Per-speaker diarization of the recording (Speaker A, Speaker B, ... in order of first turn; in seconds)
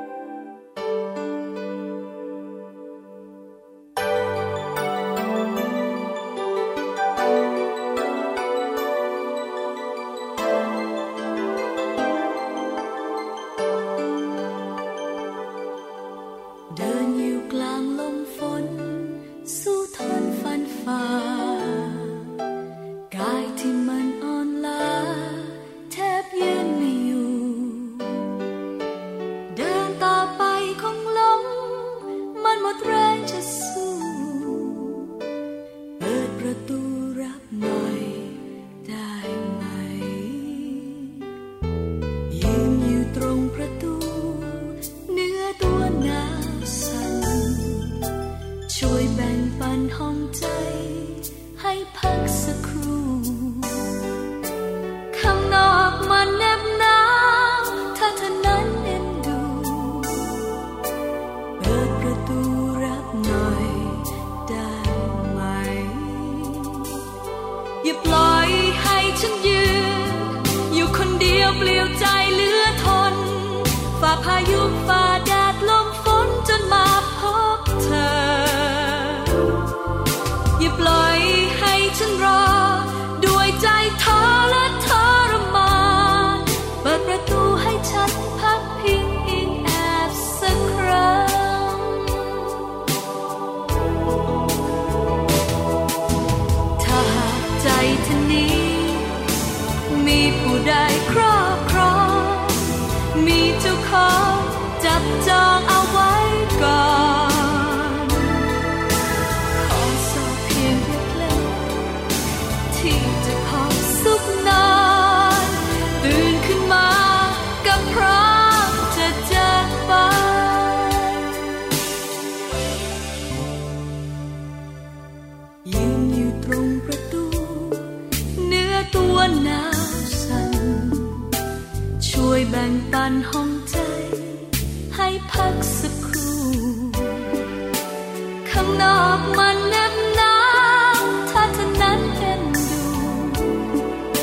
Speaker A: 16.7-22.2, 23.1-28.2, 29.5-35.1, 36.0-41.2, 42.3-47.9, 48.7-53.9, 55.1-60.4, 61.6-67.0, 67.8-79.6, 80.6-92.5, 96.8-99.2, 99.9-108.4, 109.5-112.0, 112.7-121.2, 125.6-131.3, 132.0-137.4, 138.4-143.8